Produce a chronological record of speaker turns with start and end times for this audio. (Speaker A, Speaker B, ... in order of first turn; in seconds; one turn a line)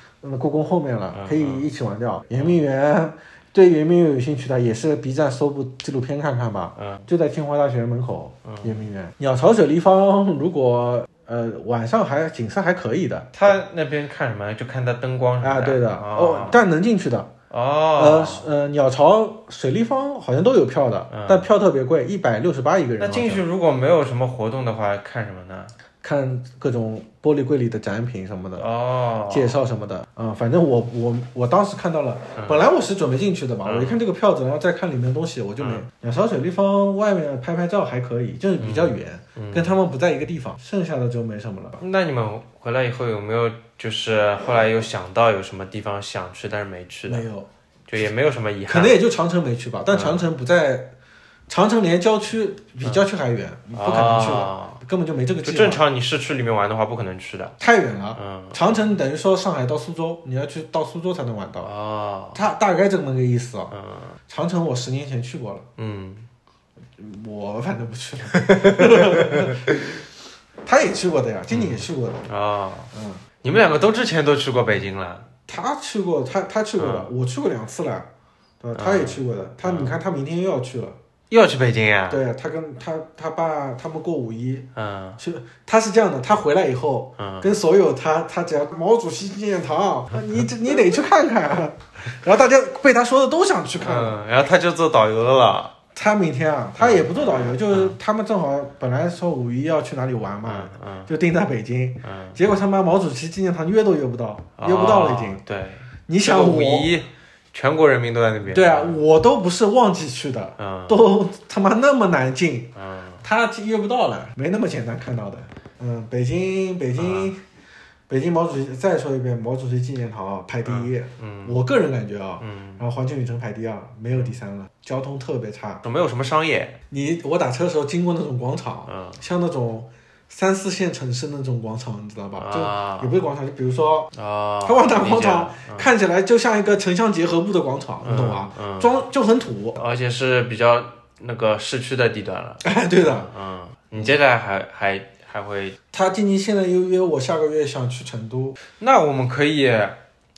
Speaker A: 0.2-13.3
Speaker B: 1.1-1.7
Speaker B: 2.3-2.6
Speaker B: 6.8-7.1
Speaker B: 8.4-8.8
Speaker B: 13.3-16.6
Speaker A: 15.4-17.3
Speaker B: 17.5-18.5
Speaker A: 17.9-23.4
Speaker B: 21.1-21.5
Speaker B: 23.0-25.7
Speaker A: 26.0-28.6
Speaker B: 28.6-29.6
Speaker A: 29.3-41.8
Speaker B: 32.4-32.6
Speaker B: 33.6-34.0
Speaker B: 35.6-35.9
Speaker B: 38.6-39.7
Speaker B: 41.8-47.2
Speaker A: 47.1-47.5
Speaker B: 47.9-49.0
Speaker A: 48.7-50.9
Speaker B: 49.9-50.3
Speaker A: 51.5-55.8
Speaker B: 53.7-54.8
Speaker B: 55.4-57.5
Speaker A: 57.6-61.7
Speaker B: 58.1-58.6
Speaker B: 61.6-62.4
Speaker A: 62.3-63.7
Speaker B: 63.7-64.2
Speaker A: 64.3-65.7
Speaker B: 65.8-66.3
Speaker A: 67.0-70.0
Speaker B: 68.3-69.9
Speaker A: 70.6-72.3
Speaker B: 71.5-72.9
Speaker A: 72.9-73.2
Speaker B: 73.4-75.3
Speaker A: 75.5-78.1
Speaker B: 76.8-77.1
Speaker A: 78.6-81.0
Speaker B: 78.7-80.0
Speaker B: 81.3-82.2
Speaker A: 82.1-94.2
Speaker B: 84.7-85.2
Speaker B: 87.2-87.5
Speaker B: 93.8-95.7
Speaker A: 95.9-105.4
Speaker B: 96.8-98.0
Speaker B: 100.4-101.1
Speaker B: 102.0-102.4
Speaker B: 104.6-109.0
Speaker A: 106.1-106.9
Speaker A: 108.5-117.4
Speaker B: 110.6-111.0
Speaker B: 112.8-113.2
Speaker B: 116.9-117.3
Speaker A: 118.1-125.8
Speaker B: 120.6-121.6
Speaker B: 122.4-122.8
Speaker B: 125.8-126.8
Speaker A: 126.9-134.1
Speaker B: 128.9-129.2
Speaker B: 132.4-133.1
Speaker B: 134.1-135.9
Speaker A: 134.6-139.8
Speaker B: 138.0-138.9
Speaker B: 139.8-145.8
Speaker A: 142.6-143.3
Speaker A: 145.9-148.6
Speaker B: 148.8-150.0